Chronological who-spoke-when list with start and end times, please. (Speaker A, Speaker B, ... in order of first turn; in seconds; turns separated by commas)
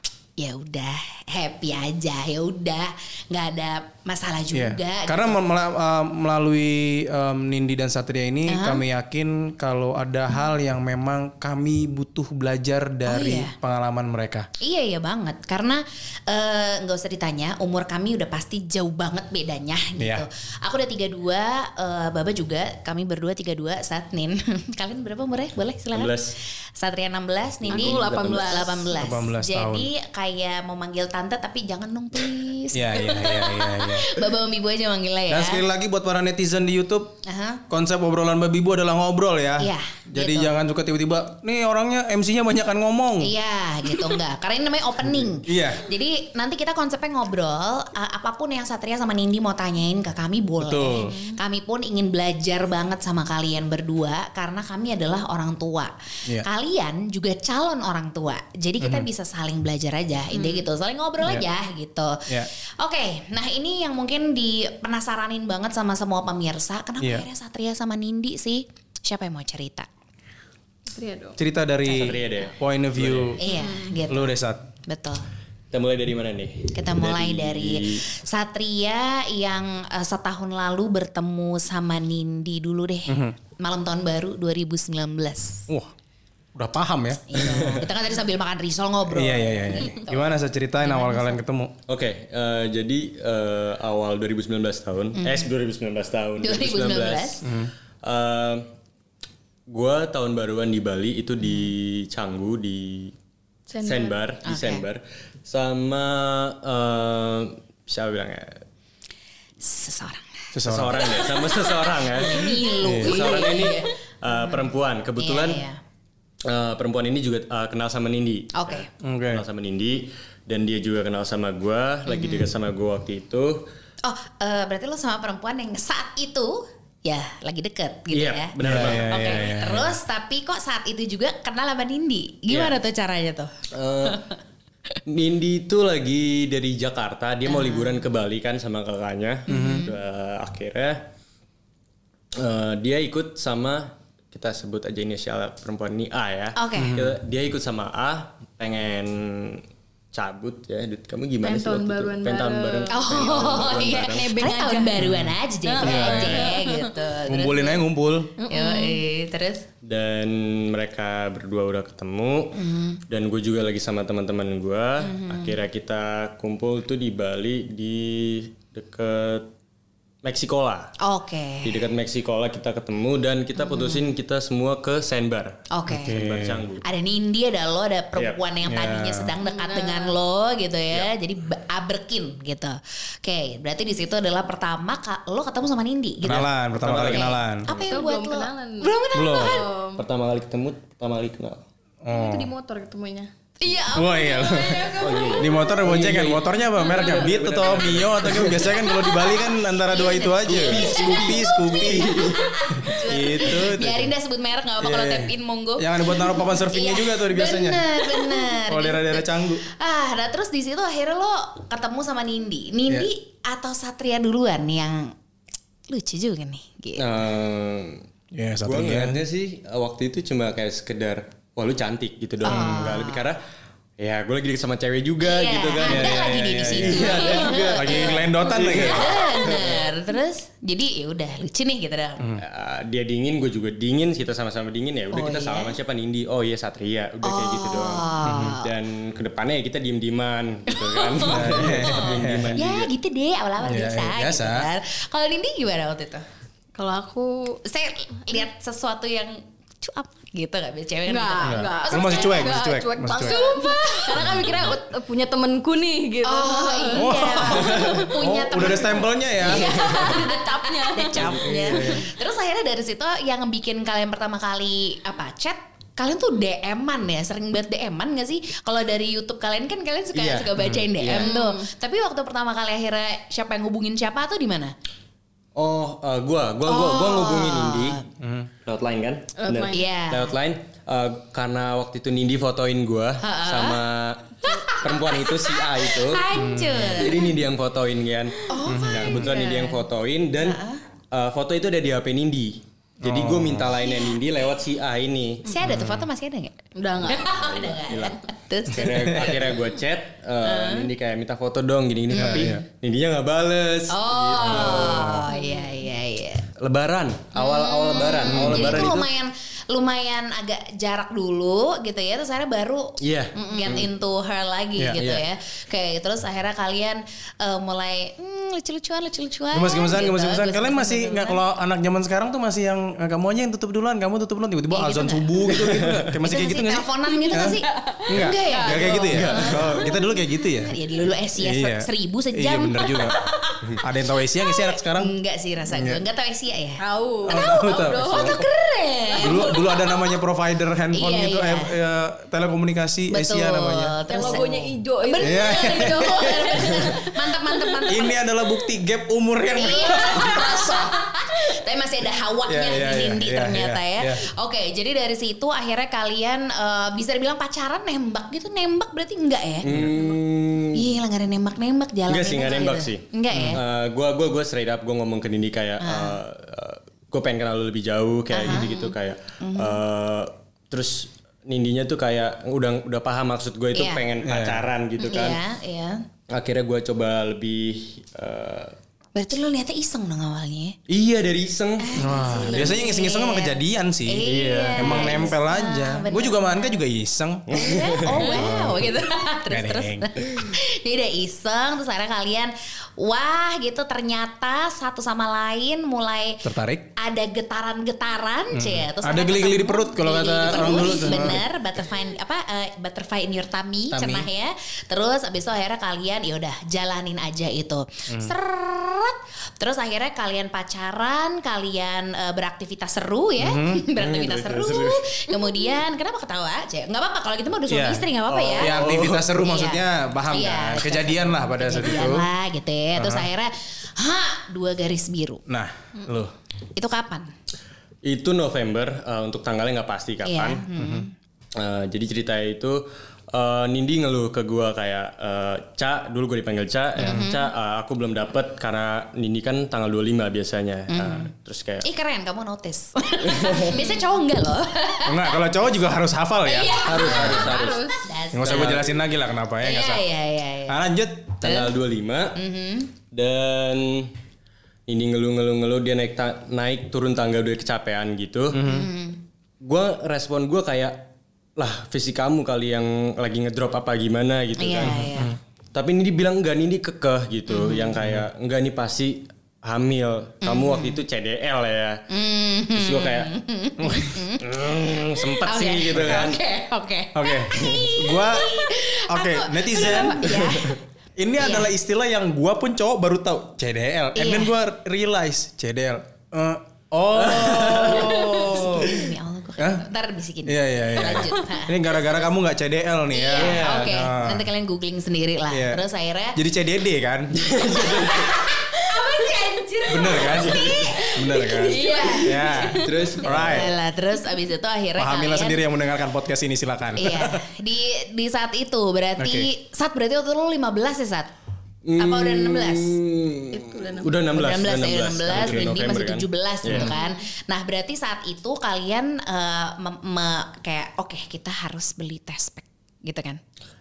Speaker A: 0.4-5.3, Speaker B: 4.5-14.5, Speaker A: 8.5-8.8, Speaker A: 13.1-13.5, Speaker A: 14.6-26.2, Speaker B: 20.0-20.2, Speaker C: 25.9-26.3, Speaker A: 26.8-35.6, Speaker C: 27.6-28.8, Speaker D: 27.6-29.1, Speaker B: 28.9-29.9, Speaker B: 32.7-34.1, Speaker B: 35.3-37.2, Speaker A: 37.2-37.6, Speaker B: 37.7-43.3, Speaker A: 39.6-40.5, Speaker A: 43.2-69.9, Speaker B: 45.0-45.9, Speaker B: 50.6-51.1, Speaker D: 50.9-51.4, Speaker B: 58.8-59.1, Speaker D: 60.3-60.6, Speaker B: 67.0-67.3, Speaker D: 70.9-71.4, Speaker B: 71.4-73.5, Speaker C: 71.8-73.4, Speaker A: 73.4-75.2, Speaker B: 74.1-74.6, Speaker C: 75.7-78.0, Speaker A: 76.7-85.7, Speaker B: 83.1-83.3, Speaker B: 86.5-87.7, Speaker A: 87.3-91.4, Speaker C: 87.4-87.8, Speaker B: 89.1-91.7, Speaker C: 91.9-97.4, Speaker A: 95.2-95.5, Speaker A: 96.4-97.4, Speaker B: 97.4-97.7, Speaker C: 98.0-98.7, Speaker C: 99.7-103.1, Speaker D: 103.7-104.2, Speaker C: 103.8-108.6, Speaker A: 104.5-104.8, Speaker A: 109.6-115.8, Speaker B: 110.5-111.0, Speaker C: 110.6-115.6, Speaker B: 112.8-113.2, Speaker D: 113.5-113.7, Speaker C: 116.4-123.7, Speaker A: 118.5-118.9, Speaker B: 119.0-119.4, Speaker A: 122.0-122.5, Speaker A: 124.0-133.5, Speaker C: 128.1-129.8, Speaker B: 128.6-129.9, Speaker C: 132.5-132.8, Speaker C: 133.7-134.2, Speaker A: 134.0-134.3, Speaker C: 135.1-141.1, Speaker A: 137.4-138.0, Speaker A: 139.5-139.9, Speaker B: 139.5-139.9, Speaker C: 142.3-154.3, Speaker A: 146.6-147.0, Speaker B: 146.8-147.1, Speaker D: 151.4-155.1, Speaker A: 152.9-157.8, Speaker B: 155.0-156.6, Speaker D: 155.7-157.0, Speaker B: 157.2-158.3, Speaker D: 158.4-159.0, Speaker A: 158.5-159.6, Speaker C: 159.8-169.5, Speaker A: 162.5-163.0, Speaker A: 165.0-165.6, Speaker C: 170.2-170.9, Speaker A: 171.0-171.9, Speaker C: 171.6-176.8, Speaker A: 173.6-174.0, Speaker A: 175.7-176.2, Speaker B: 175.9-176.6, Speaker A: 176.8-186.5, Speaker B: 178.6-179.3, Speaker D: 179.4-180.2, Speaker B: 186.2-187.7, Speaker C: 186.8-188.0, Speaker A: 187.0-189.7, Speaker D: 187.8-190.0, Speaker B: 189.1-189.6, Speaker C: 189.9-191.6, Speaker B: 192.0-192.5, Speaker D: 192.1-193.3, Speaker A: 193.6-195.1, Speaker B: 193.9-204.1, Speaker D: 194.2-195.7, Speaker C: 195.0-198.8, Speaker D: 196.8-197.3, Speaker A: 198.5-215.1, Speaker C: 200.4-202.5, Speaker B: 204.8-209.7, Speaker A: 215.9-217.1, Speaker C: 217.0-218.0, Speaker B: 218.3-219.2, Speaker C: 218.6-223.4, Speaker A: 222.4-223.2, Speaker B: 222.4-222.9, Speaker C: 224.0-229.9, Speaker A: 225.2-232.3, Speaker B: 225.8-229.3, Speaker D: 227.1-227.7, Speaker C: 232.4-242.9, Speaker A: 235.1-235.8, Speaker A: 237.2-238.7, Speaker B: 238.2-238.6, Speaker A: 240.7-246.2, Speaker B: 241.2-242.5, Speaker B: 243.6-244.7, Speaker D: 246.8-247.6, Speaker A: 247.6-254.3, Speaker D: 251.1-258.1, Speaker B: 251.4-253.4, Speaker A: 256.2-274.7, Speaker B: 256.9-259.7, Speaker D: 259.4-262.0, Speaker C: 259.7-260.1, Speaker C: 261.1-261.4, Speaker B: 261.2-262.1, Speaker C: 270.1-271.3, Speaker D: 271.2-271.7, Speaker C: 275.6-278.0, Speaker A: 276.6-278.0, Speaker B: 278.2-278.5, Speaker C: 278.6-286.2, Speaker D: 279.4-279.9, Speaker A: 279.7-280.3, Speaker A: 283.2-283.8, Speaker A: 284.4-287.3, Speaker B: 286.3-287.1, Speaker C: 286.8-295.5, Speaker D: 288.3-289.8, Speaker A: 288.5-289.6, Speaker B: 288.6-289.2, Speaker A: 290.4-290.8, Speaker B: 293.0-293.8, Speaker A: 293.8-294.2, Speaker A: 295.4-299.5, Speaker B: 295.6-296.1, Speaker D: 296.8-297.3, Speaker C: 297.2-305.2, Speaker B: 298.8-299.4, Speaker A: 300.4-300.9, Speaker B: 302.1-302.6, Speaker A: 302.1-302.5, Speaker A: 303.9-306.4, Speaker B: 304.4-305.1, Speaker D: 305.3-305.8, Speaker C: 306.6-309.1, Speaker A: 307.4-321.4, Speaker B: 308.3-308.9, Speaker C: 313.0-313.9, Speaker C: 315.0-315.2, Speaker B: 319.5-330.8, Speaker A: 324.7-325.7, Speaker C: 325.4-326.2, Speaker A: 326.2-330.0, Speaker D: 327.1-330.1, Speaker C: 329.1-329.8, Speaker A: 330.6-333.6, Speaker B: 331.4-333.2, Speaker B: 333.8-335.1, Speaker A: 334.5-339.9, Speaker B: 335.7-336.0, Speaker D: 336.8-338.5, Speaker B: 337.2-338.4, Speaker D: 339.1-339.9, Speaker B: 339.2-344.4, Speaker A: 340.9-341.7, Speaker A: 343.1-348.2, Speaker D: 344.1-348.0, Speaker B: 345.2-347.0, Speaker B: 347.9-350.9, Speaker A: 349.5-359.7, Speaker D: 349.7-350.9, Speaker B: 352.5-354.3, Speaker C: 359.6-360.9, Speaker B: 359.7-359.9, Speaker A: 360.7-363.6, Speaker C: 362.1-375.4, Speaker B: 363.3-363.6, Speaker A: 365.8-366.2, Speaker A: 368.3-369.8, Speaker A: 373.7-374.1, Speaker B: 374.2-374.7, Speaker A: 375.0-376.1, Speaker C: 376.3-378.8, Speaker A: 379.1-380.8, Speaker C: 380.9-382.8, Speaker A: 381.8-386.8, Speaker B: 381.9-388.9, Speaker C: 384.2-385.3, Speaker C: 387.5-388.2, Speaker A: 387.5-396.4, Speaker B: 389.5-390.2, Speaker B: 396.4-396.9, Speaker A: 396.9-425.4, Speaker B: 398.5-401.4, Speaker B: 403.9-404.3, Speaker B: 413.4-413.9, Speaker C: 413.9-415.1, Speaker B: 417.7-422.3, Speaker C: 418.3-419.2, Speaker B: 422.9-423.3, Speaker B: 425.5-426.3, Speaker A: 426.7-427.3, Speaker C: 428.0-430.6, Speaker A: 430.2-431.1, Speaker B: 430.8-431.1, Speaker C: 431.6-441.9, Speaker A: 437.0-437.5, Speaker A: 440.9-441.3, Speaker A: 441.8-445.4, Speaker C: 443.2-443.7, Speaker B: 445.0-447.3, Speaker A: 446.4-449.0, Speaker D: 446.8-448.1, Speaker C: 446.8-448.9, Speaker B: 448.3-450.1, Speaker A: 449.6-450.8, Speaker B: 450.7-451.6, Speaker C: 451.4-452.4, Speaker A: 452.4-452.9, Speaker C: 453.1-454.1, Speaker C: 454.9-458.6, Speaker B: 458.5-458.9, Speaker A: 458.6-459.2, Speaker C: 459.6-465.1, Speaker A: 464.6-465.4, Speaker B: 464.8-465.4, Speaker C: 465.7-472.0, Speaker A: 467.5-468.0, Speaker A: 470.4-471.0, Speaker A: 472.1-480.8, Speaker C: 472.7-473.3, Speaker B: 473.8-474.2, Speaker C: 474.4-476.4, Speaker B: 475.9-476.3, Speaker B: 477.1-489.9, Speaker C: 477.5-477.9, Speaker C: 480.2-480.8, Speaker A: 481.4-481.7, Speaker A: 484.1-484.5, Speaker C: 487.1-488.4, Speaker A: 487.7-491.9, Speaker B: 490.4-494.5, Speaker A: 493.1-496.4, Speaker C: 493.3-494.0, Speaker B: 495.5-497.3, Speaker C: 497.3-498.5, Speaker A: 497.9-505.6, Speaker B: 499.9-503.7, Speaker C: 500.3-501.1, Speaker D: 500.6-503.2, Speaker C: 502.7-503.6, Speaker B: 505.0-507.4, Speaker A: 507.0-511.3, Speaker B: 509.2-509.5, Speaker C: 511.8-516.9, Speaker A: 512.0-513.0, Speaker D: 513.5-514.3, Speaker A: 514.3-523.4, Speaker B: 515.3-515.7, Speaker D: 516.8-517.1